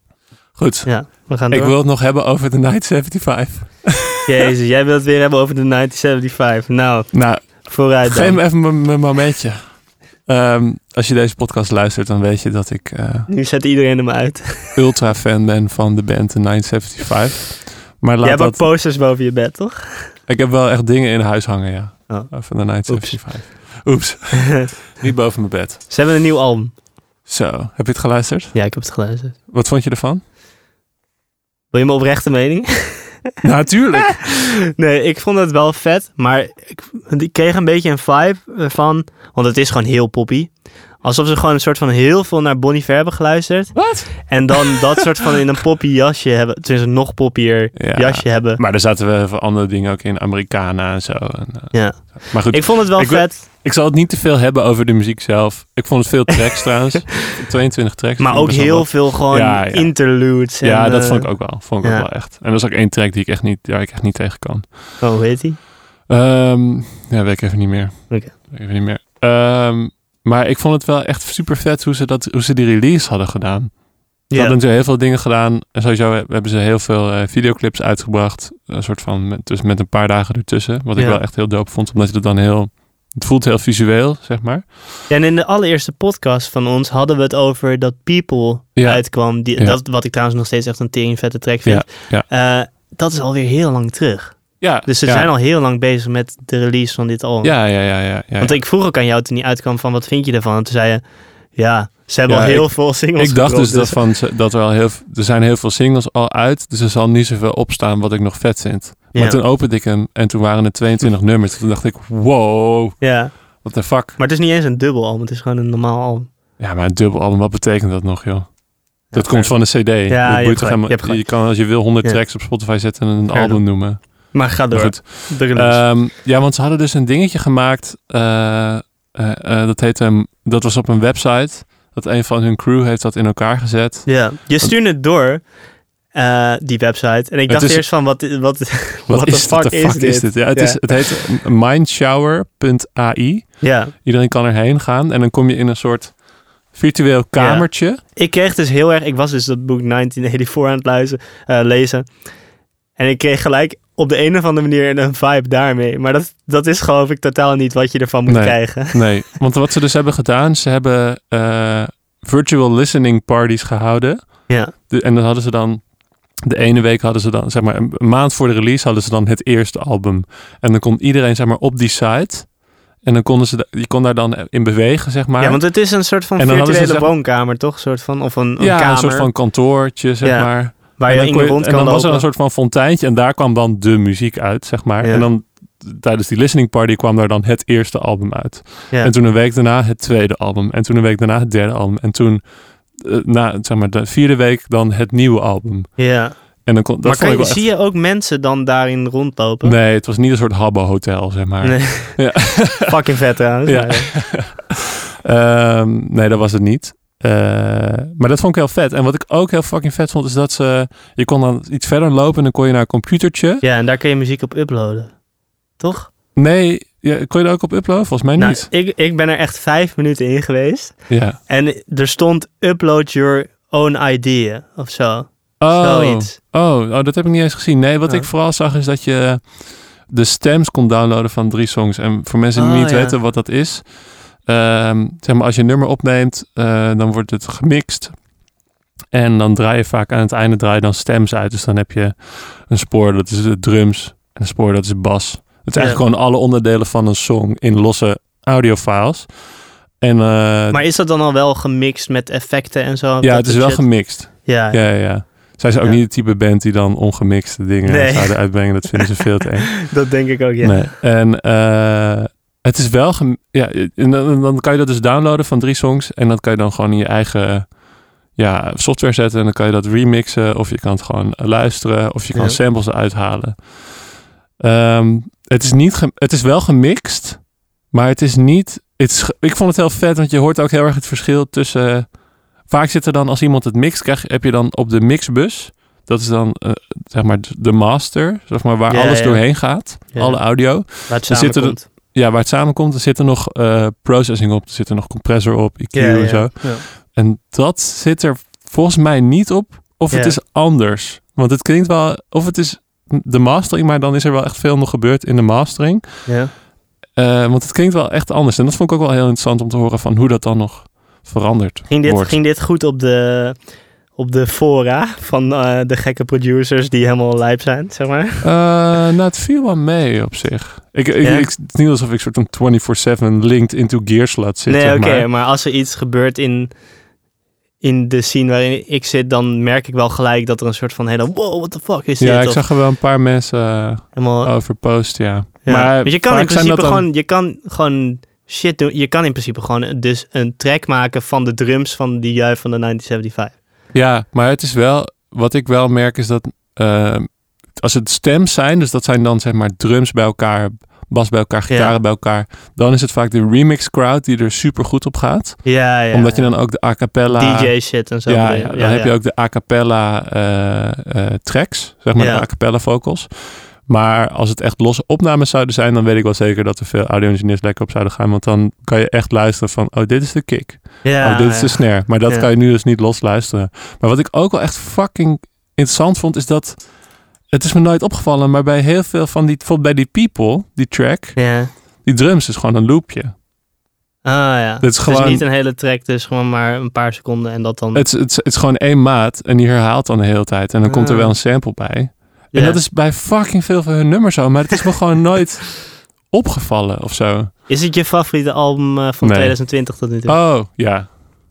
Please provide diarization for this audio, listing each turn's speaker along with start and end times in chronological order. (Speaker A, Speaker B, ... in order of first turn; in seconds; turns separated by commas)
Speaker A: 0.5-4.2, Speaker B: 0.8-1.7, Speaker B: 4.2-8.4, Speaker A: 7.1-13.3, Speaker B: 13.3-14.8, Speaker A: 14.7-18.7, Speaker B: 18.2-20.1, Speaker A: 20.3-25.9, Speaker B: 22.1-23.4, Speaker B: 24.3-24.7, Speaker B: 25.9-26.7, Speaker A: 27.3-28.6, Speaker B: 28.5-29.4, Speaker A: 29.5-30.2, Speaker B: 31.7-33.3, Speaker A: 33.4-34.2, Speaker B: 34.1-48.6, Speaker A: 43.8-44.9, Speaker A: 47.8-65.0, Speaker B: 51.7-53.4, Speaker B: 58.2-62.1, Speaker B: 65.0-65.6, Speaker A: 66.1-85.0, Speaker B: 74.3-74.6, Speaker B: 81.0-81.2, Speaker B: 85.1-101.0, Speaker A: 88.8-89.8, Speaker A: 91.7-92.3, Speaker A: 94.6-95.3, Speaker A: 97.4-98.6, Speaker B: 101.6-104.0, Speaker A: 102.3-114.2, Speaker B: 109.1-109.4, Speaker B: 113.0-116.3, Speaker A: 116.6-134.8, Speaker B: 119.1-122.2, Speaker B: 123.3-125.9, Speaker B: 134.1-135.5, Speaker B: 136.1-141.1, Speaker A: 137.5-137.8, Speaker A: 139.1-148.0, Speaker B: 143.6-143.9, Speaker B: 147.4-152.2, Speaker B: 153.0-159.3, Speaker A: 158.3-165.9, Speaker B: 164.5-164.7, Speaker A: 166.4-177.1, Speaker B: 175.4-179.6, Speaker A: 178.6-197.6, Speaker B: 180.2-182.3, Speaker B: 185.0-185.3, Speaker B: 196.0-199.8, Speaker A: 199.6-202.9, Speaker B: 201.6-204.3, Speaker A: 203.7-204.7, Speaker A: 205.2-213.6, Speaker B: 213.6-215.2, Speaker B: 215.8-216.1, Speaker A: 216.3-218.7, Speaker B: 218.4-226.4, Speaker A: 221.1-221.4, Speaker A: 225.6-238.2, Speaker B: 232.6-233.2, Speaker A: 239.1-249.4, Speaker B: 245.7-246.0, Speaker A: 250.0-250.8, Speaker B: 250.7-256.0, Speaker A: 253.2-260.0, Speaker B: 257.9-259.2, Speaker B: 259.8-261.0, Speaker A: 260.6-267.8, Speaker A: 268.3-273.9, Speaker B: 272.3-272.6, Speaker A: 274.6-306.3, Speaker B: 288.9-291.9, Speaker B: 295.9-296.8, Speaker B: 300.1-300.4, Speaker B: 306.3-306.5, Speaker A: 307.1-312.4, Speaker B: 311.9-318.5, Speaker A: 318.4-325.3, Speaker B: 321.2-321.5, Speaker B: 324.7-326.7, Speaker B: 327.8-332.6, Speaker A: 332.2-337.1, Speaker B: 334.1-334.6, Speaker B: 335.6-343.6, Speaker A: 343.9-376.9, Speaker B: 351.7-351.9, Speaker B: 355.6-356.7, Speaker B: 357.3-359.1, Speaker B: 362.2-362.5, Speaker B: 371.0-372.5, Speaker A: 377.5-381.5, Speaker B: 381.4-381.7, Speaker A: 382.0-383.3, Speaker B: 384.2-388.1, Speaker A: 384.8-385.4, Speaker A: 387.9-397.5, Speaker B: 390.9-391.4, Speaker B: 392.5-392.8, Speaker B: 397.7-400.4, Speaker A: 399.2-401.1